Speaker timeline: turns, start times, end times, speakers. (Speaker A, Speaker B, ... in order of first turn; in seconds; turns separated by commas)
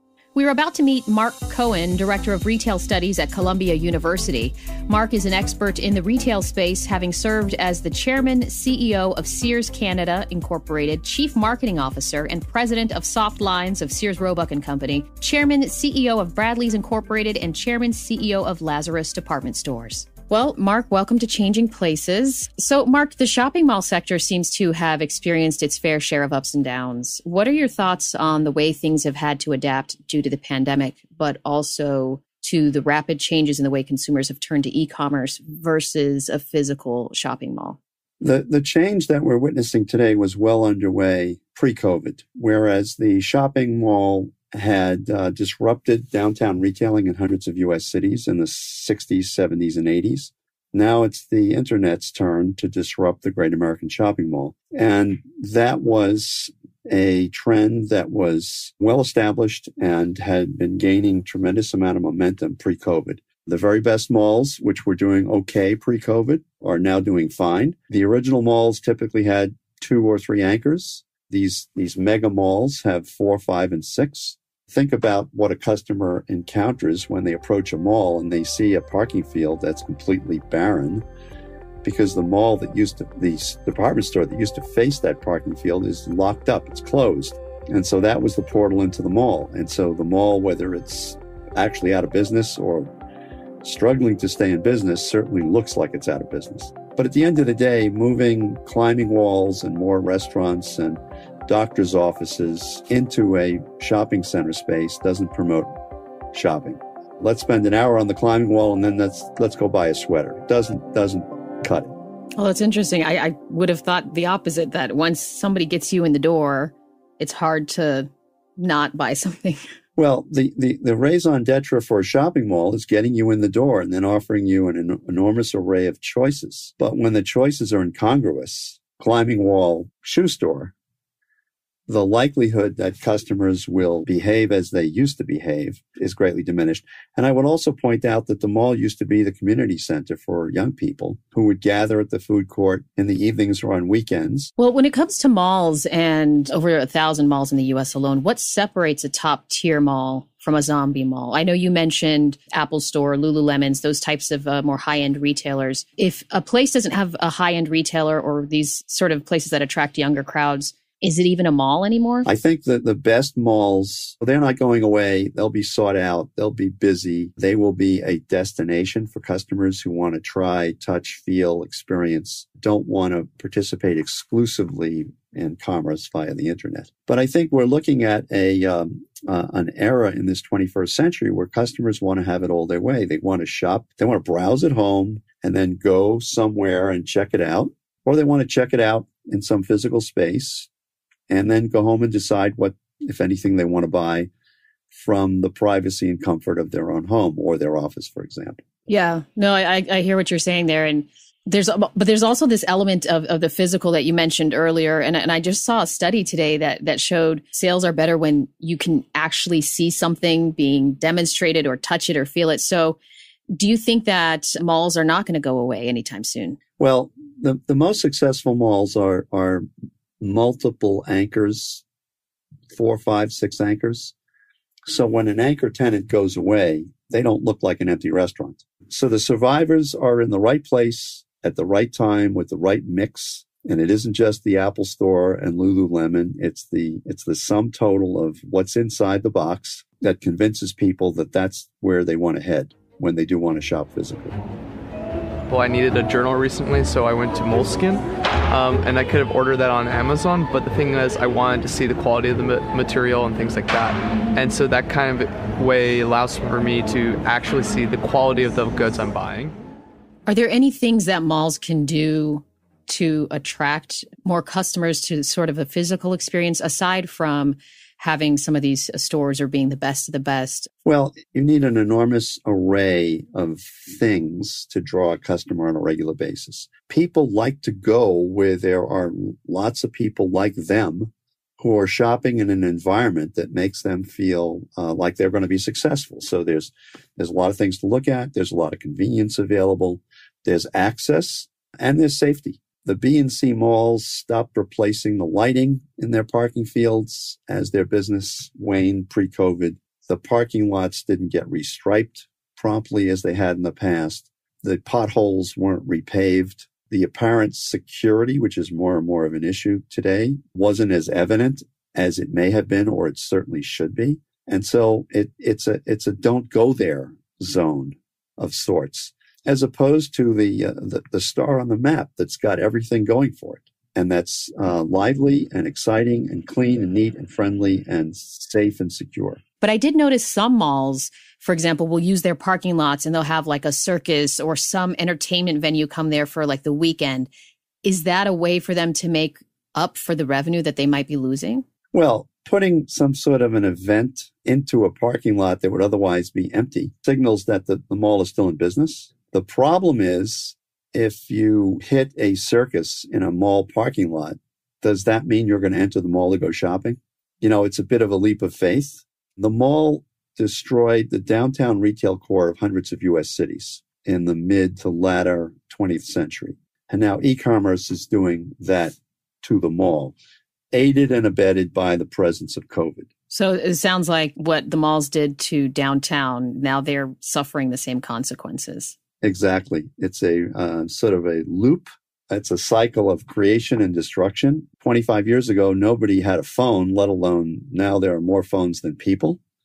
Speaker A: 0.3-37.8, Speaker B: 38.2-81.0, Speaker B: 81.8-92.9, Speaker B: 93.6-105.7, Speaker B: 106.3-111.9, Speaker A: 112.4-119.6, Speaker B: 120.0-130.7, Speaker B: 131.9-144.5, Speaker A: 144.6-162.3, Speaker B: 162.2-190.7, Speaker B: 191.3-194.3, Speaker B: 194.9-198.6, Speaker A: 198.9-213.0, Speaker A: 213.5-216.6, Speaker B: 216.8-219.7, Speaker B: 220.2-221.8, Speaker B: 222.7-224.1, Speaker B: 224.8-244.4, Speaker C: 245.5-259.6, Speaker A: 260.3-270.7, Speaker B: 270.8-329.4, Speaker A: 329.6-337.3, Speaker A: 337.8-341.6, Speaker B: 341.9-370.1, Speaker B: 370.7-373.1, Speaker A: 373.3-378.9, Speaker B: 379.2-389.4